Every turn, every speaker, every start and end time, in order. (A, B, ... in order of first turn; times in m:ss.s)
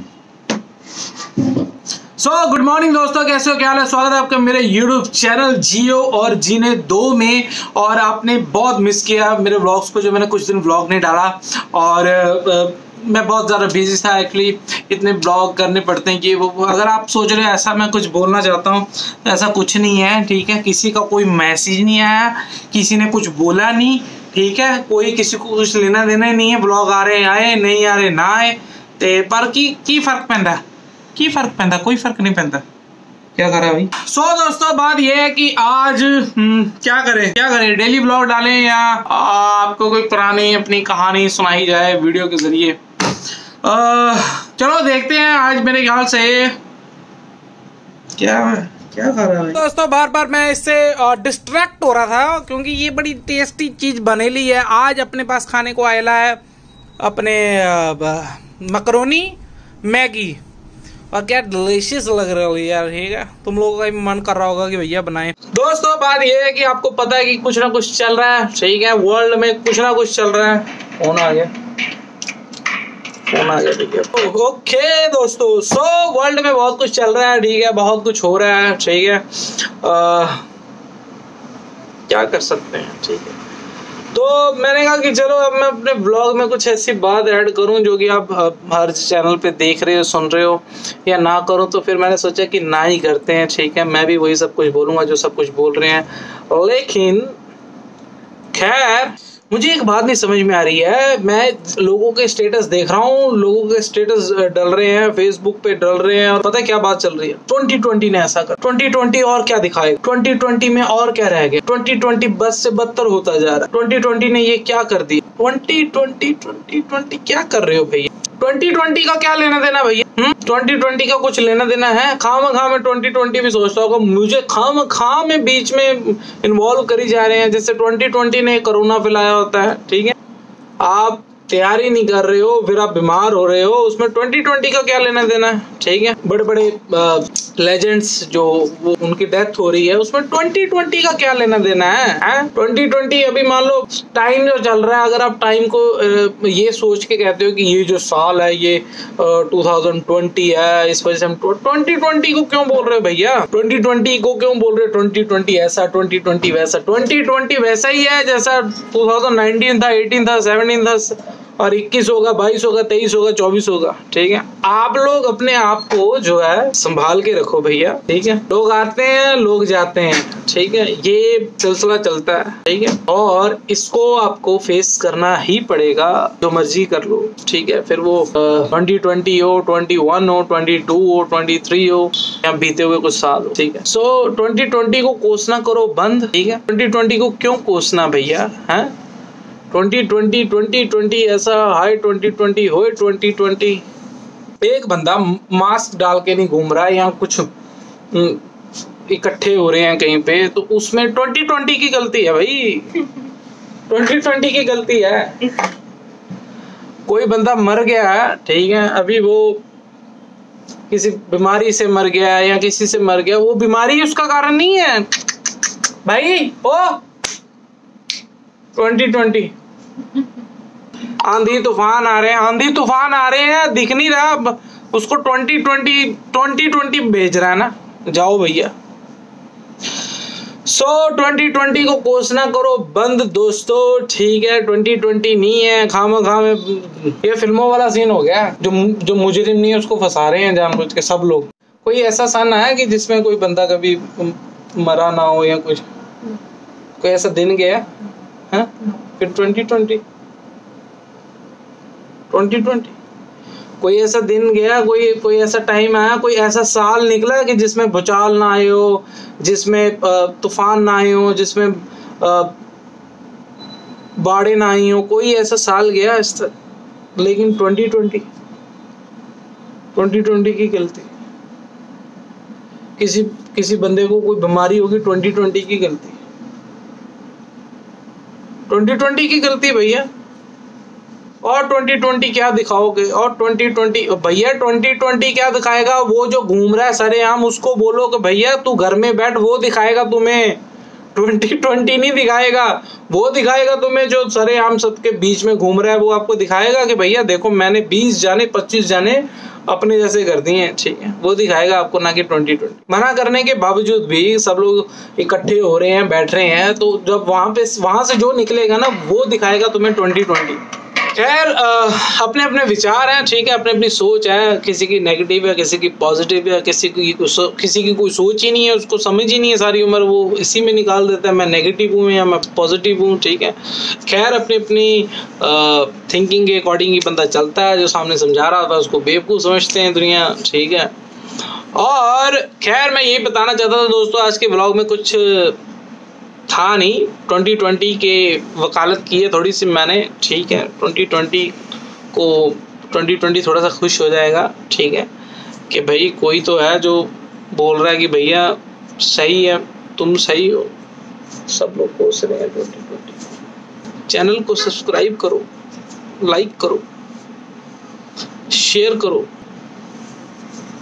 0:01.3-0:01.6 A
0:02.2-0:30.6 A
0:31.2-0:32.6 A
0:33.4-0:42.8 A
0:43.6-0:46.6 A
0:48.2-0:56.4 A
0:57.0-1:00.4 A
1:01.1-1:11.5 A
1:13.3-1:20.4 A
1:22.1-1:23.4 A
1:24.1-1:37.3 A
1:38.5-2:10.2 A
2:10.8-3:08.9 A
3:09.7-3:13.8 A
3:14.6-3:17.5 A
3:18.1-3:18.4 A
3:19.1-3:23.3 A
3:23.9-3:25.6 A
3:27.1-3:29.6 A
3:30.9-3:35.1 A
3:36.0-3:37.0 A
3:38.7-3:39.5 A
3:41.2-3:48.7 A
3:50.6-4:05.9 A
4:07.0-4:07.9 A
4:08.5-4:10.0 A
4:12.3-4:12.9 A
4:13.8-4:22.6 A
4:24.2-4:26.5 A
4:27.2-4:28.3 A
4:30.0-4:31.1 A
4:33.0-4:36.2 A
4:38.7-4:40.1 A
4:41.4-4:50.6 A
4:51.2-5:35.6 A
5:36.5-5:41.6 A
5:42.1-5:45.1 A
5:45.7-5:50.7 A
5:51.5-5:53.2 A
5:54.1-5:55.5 A
5:56.2-5:56.8 A
5:58.5-5:59.3 A